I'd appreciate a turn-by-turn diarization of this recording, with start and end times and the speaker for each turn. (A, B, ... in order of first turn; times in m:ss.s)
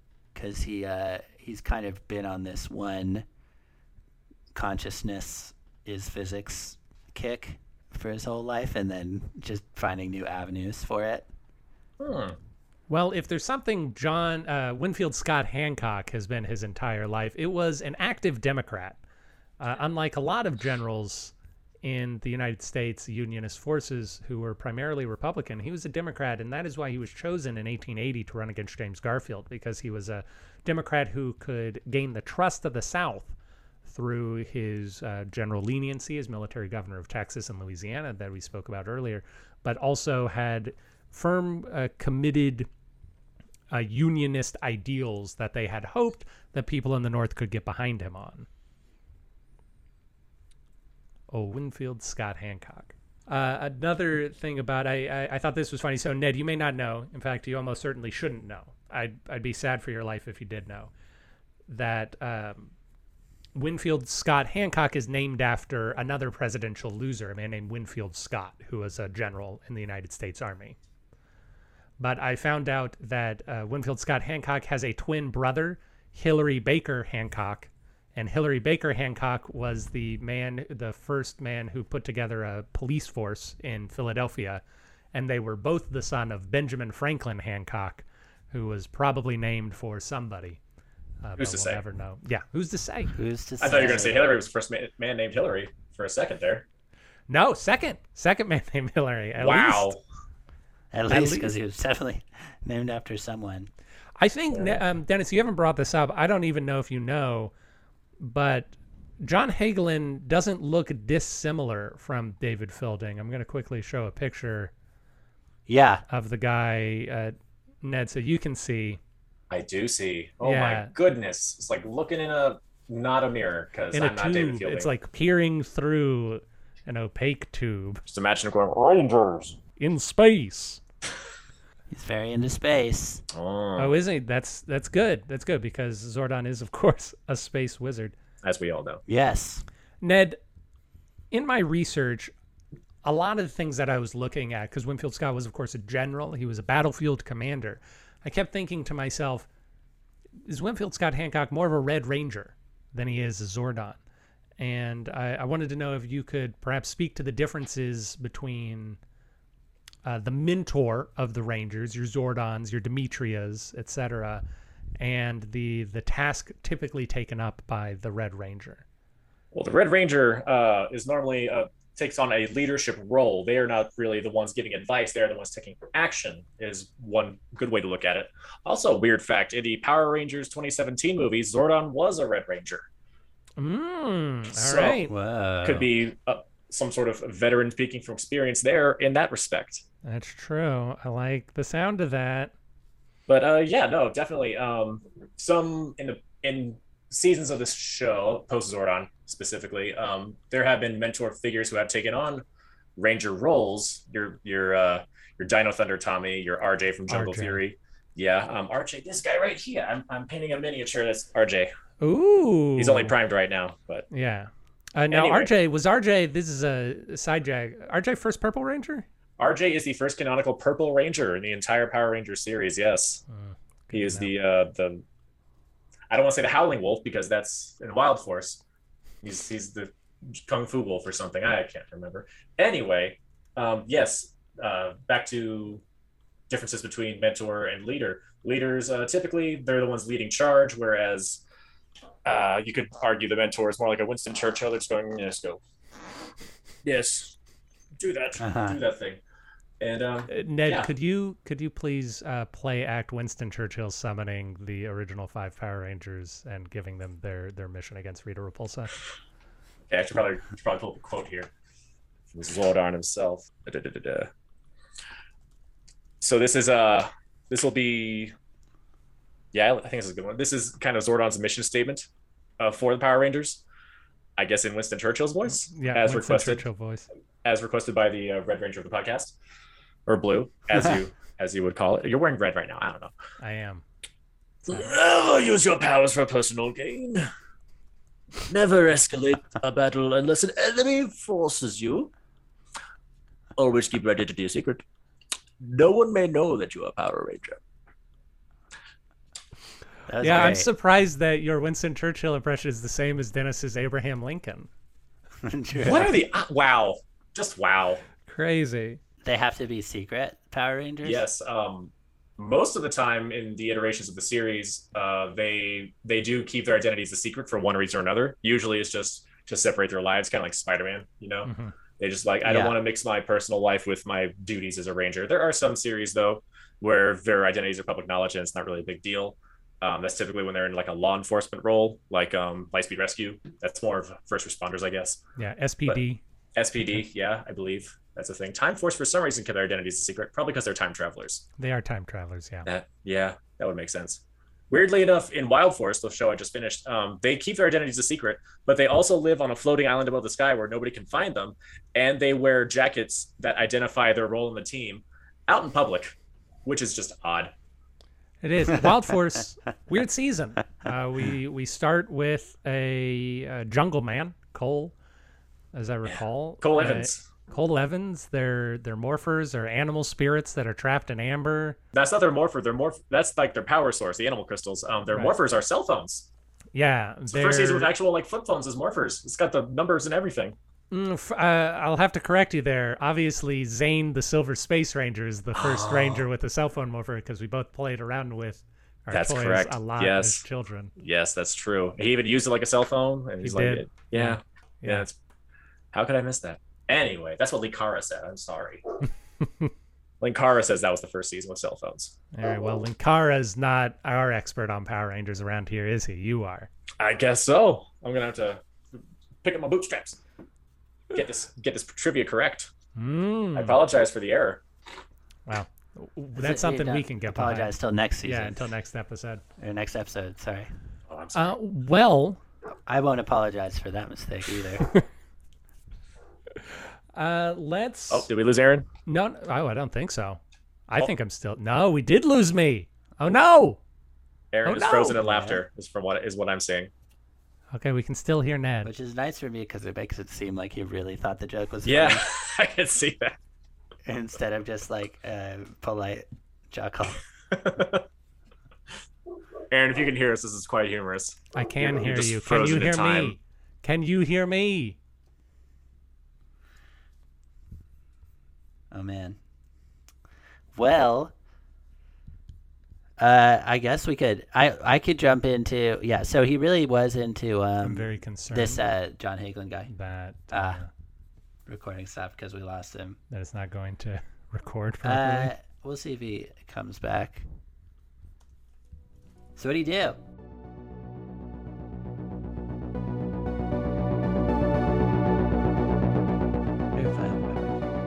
0:00.3-0:03.2 A
0:04.5-0:11.3 A
0:12.0-0:12.4 B
0:12.9-0:19.0 C
0:19.6-0:21.3 C
0:21.8-0:42.7 C
0:43.7-0:48.5 C
0:51.3-1:00.9 C
1:01.7-1:02.7 C
1:03.5-1:10.8 C
1:12.0-1:24.6 C
1:25.1-1:30.6 C
1:31.2-1:33.1 C
1:31.4-1:31.8 B
1:33.1-1:34.4 A
1:33.6-1:36.6 B
1:37.3-1:39.9 C
1:39.4-1:40.0 B
1:40.9-1:43.7 A
1:41.1-1:41.5 C
1:44.2-1:47.5 C
1:48.2-1:54.7 C
1:55.7-1:56.0 A
1:56.1-1:59.0 C
1:59.5-2:04.9 B
2:00.4-2:00.9 C
2:03.9-2:08.0 C
2:08.1-2:09.6 B
2:09.8-2:10.8 C
2:11.9-2:13.2 A
2:13.3-2:13.9 B
2:13.8-2:18.1 C
2:18.4-2:19.0 B
2:19.1-2:19.6 A
2:20.0-2:20.4 C
2:21.3-2:22.3 C
2:23.0-2:29.5 C
2:30.4-2:34.0 C
2:34.6-2:39.0 C
2:40.0-2:44.4 C
2:45.0-2:48.8 C
2:49.5-3:02.8 B
3:03.6-3:05.1 C
3:04.5-3:05.0 B
3:04.8-3:05.9 A
3:05.6-3:09.8 B
3:10.0-3:12.5 C
3:13.3-3:22.4 B
3:23.0-3:31.7 B
3:27.1-3:27.6 C
3:32.0-3:33.1 C
3:32.8-3:34.1 B
3:34.1-3:39.0 C
3:35.1-3:35.5 B
3:39.4-3:43.2 B
3:43.3-3:44.3 C
3:43.9-3:45.0 B
3:46.1-3:48.6 B
3:49.2-3:55.8 B
3:56.5-4:01.4 B
4:02.2-4:05.6 B
4:06.8-4:07.4 B
4:08.0-4:09.2 B
4:08.4-4:08.8 A
4:09.8-4:10.9 B
4:10.3-4:18.9 C
4:19.9-4:21.5 B
4:22.3-4:24.3 B
4:26.2-4:28.3 B
4:29.5-4:32.0 B
4:32.6-4:33.6 B
4:34.4-4:36.6 B
4:35.5-4:37.1 C
4:37.4-4:39.3 B
4:40.1-4:43.1 B
4:43.4-4:43.8 C
4:44.7-4:47.3 B
4:48.4-4:52.1 B
4:53.6-4:54.8 B
4:55.6-4:57.6 B
5:00.1-5:00.7 A
5:00.2-5:04.7 C
5:05.4-5:06.2 A
5:05.8-5:08.0 B
5:08.3-5:09.0 C
5:09.2-5:11.2 A
5:11.0-5:35.2 B
5:21.4-5:21.7 C
5:22.4-5:22.8 A
5:35.4-5:36.2 C
5:36.6-5:41.4 B
5:41.6-5:42.7 C
5:42.7-5:56.1 B
5:56.6-5:57.5 B
5:58.4-6:04.9 C
6:05.7-6:11.8 C
6:06.0-6:07.2 B
6:11.9-6:16.3 B
6:16.7-6:17.9 C
6:17.3-6:20.6 B
6:20.9-6:30.9 C
6:25.6-6:26.2 B
6:29.1-6:30.4 B
6:31.0-6:35.1 B
6:33.4-6:35.0 C
6:35.9-6:38.8 B
6:39.4-6:39.7 C
6:40.2-6:42.1 B
6:42.3-6:46.7 C
6:47.0-6:50.2 B
6:51.1-6:52.7 B
6:53.0-6:53.8 C
6:53.5-6:54.6 B
6:55.5-6:59.4 C
6:56.4-6:58.6 A
6:59.6-7:00.7 A
7:01.1-7:01.5 B
7:01.3-7:02.4 C
7:02.9-7:04.9 A
7:07.1-7:08.3 C
7:08.1-7:08.9 B
7:09.0-7:13.8 C
7:14.5-7:16.9 B
7:14.6-7:15.2 C
7:15.2-7:15.6 A
7:17.7-7:18.9 C
7:18.8-7:22.2 A
7:21.8-7:23.4 B
7:24.0-7:27.2 A
7:27.5-7:28.0 B
7:29.7-7:33.4 B
7:31.5-7:35.0 C
7:38.9-7:39.4 A
7:40.7-7:41.3 A
7:43.2-7:49.9 A
7:47.8-7:48.8 C
7:49.9-7:50.9 C
7:50.5-7:50.8 A
7:51.6-7:53.2 A
7:53.3-7:55.5 C
7:55.0-7:57.4 A
7:59.6-8:00.2 A
8:06.9-8:07.8 A